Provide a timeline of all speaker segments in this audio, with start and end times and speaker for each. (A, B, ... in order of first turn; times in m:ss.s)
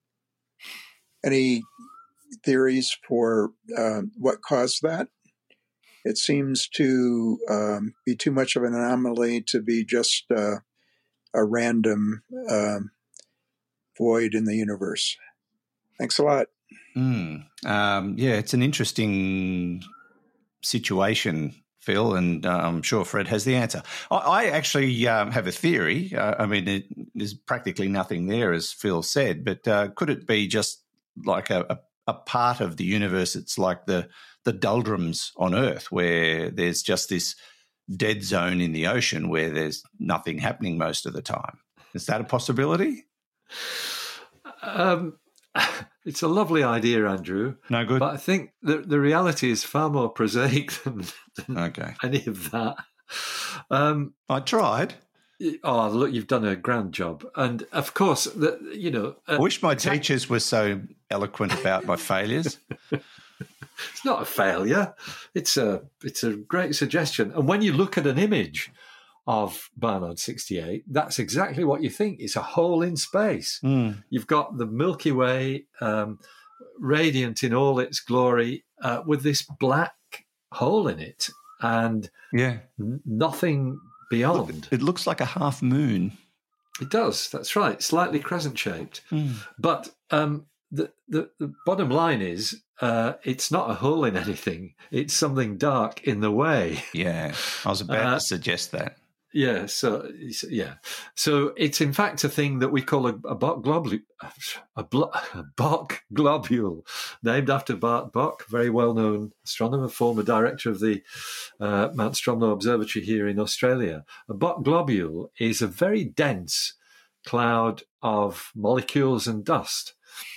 0:01.2-0:01.7 A
0:02.4-0:05.1 A
0:06.0-0:10.6 A
0:11.3-0:12.9 A
0:14.0-0:15.2 A
0:16.0-0:16.5 A
0:16.9-0:19.8 B
0:20.6-0:37.4 B
0:37.9-0:43.0 B
0:43.6-0:43.9 C
0:44.6-0:54.1 C
0:47.7-0:48.0 B
0:51.5-0:52.0 B
0:54.3-0:55.0 B
0:55.4-1:00.0 C
0:59.4-1:02.6 B
1:03.9-1:08.7 C
1:09.3-1:16.2 C
1:13.6-1:14.0 B
1:16.8-1:22.1 C
1:22.3-1:22.6 B
1:22.8-1:24.7 C
1:24.3-1:26.2 B
1:26.8-1:29.0 C
1:29.1-1:29.4 B
1:29.6-1:36.9 C
1:36.9-1:38.9 B
1:37.5-1:38.2 C
1:39.3-1:59.9 C